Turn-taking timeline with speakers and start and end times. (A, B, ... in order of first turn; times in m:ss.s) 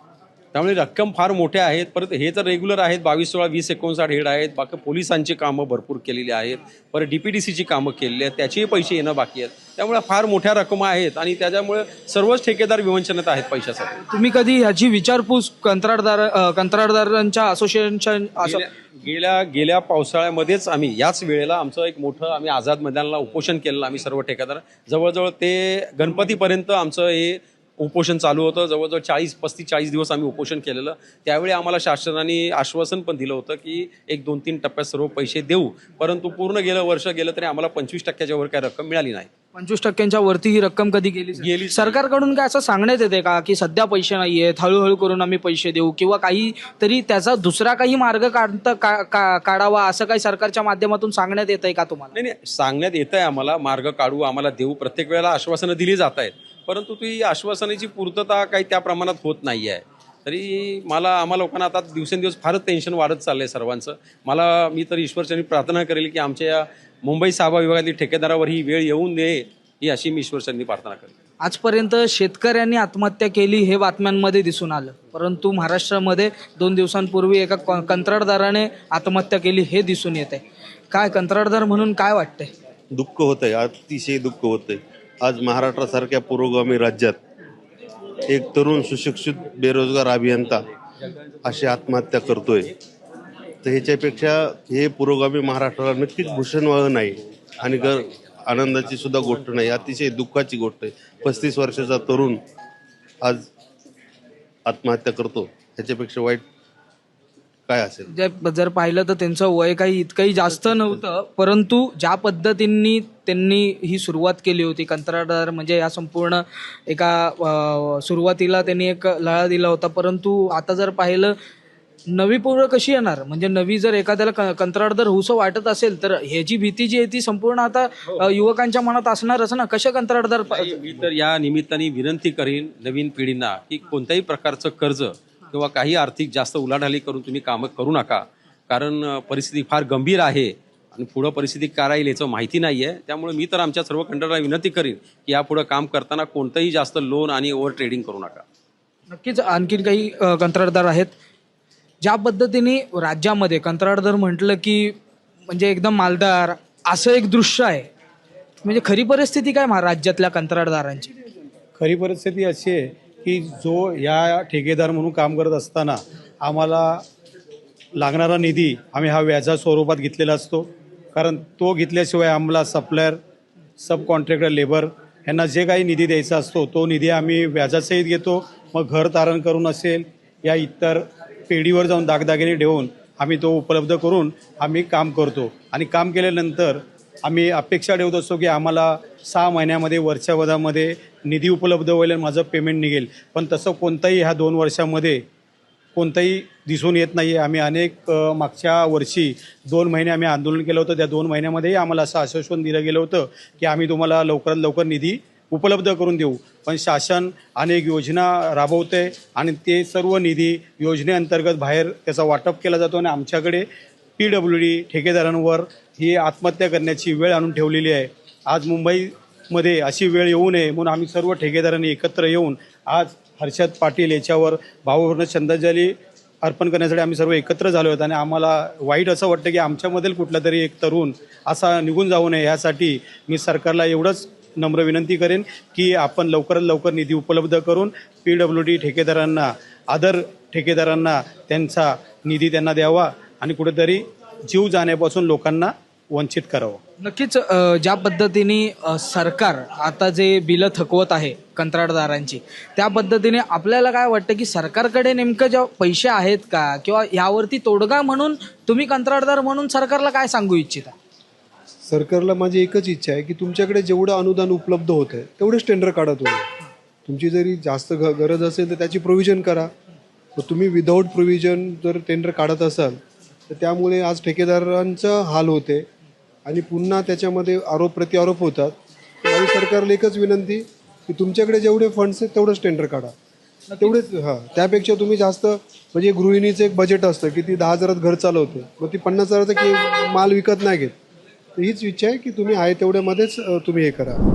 0:00.5-0:14.0 A
0:14.1-0:18.6 B
0:18.4-0:39.3 A
0:39.5-0:52.1 B
0:41.4-0:42.0 A
0:52.1-1:11.1 A
1:11.4-1:22.5 B
1:22.9-1:27.2 C
1:28.3-1:30.6 C
1:31.4-1:32.7 C
1:33.6-1:42.4 C
1:44.6-1:46.4 C
1:47.7-1:48.1 C
1:48.1-2:01.3 B
2:02.1-2:10.8 B
2:10.5-2:28.4 A
2:29.1-2:31.1 B
2:32.0-2:35.0 B
2:35.5-2:37.9 B
2:38.6-2:41.1 B
2:41.8-2:47.0 D
2:48.0-2:53.2 D
2:53.8-3:15.2 D
3:15.9-3:33.6 D
3:34.2-3:45.9 D
3:46.4-4:06.8 D
4:07.0-4:20.9 B
4:21.9-4:26.4 E
4:27.0-4:29.7 E
4:30.4-4:33.0 E
4:33.5-4:35.8 E
4:36.4-4:38.7 E
4:39.3-4:43.1 E
4:43.7-4:44.0 B
4:43.8-4:50.9 E
4:51.6-4:54.2 E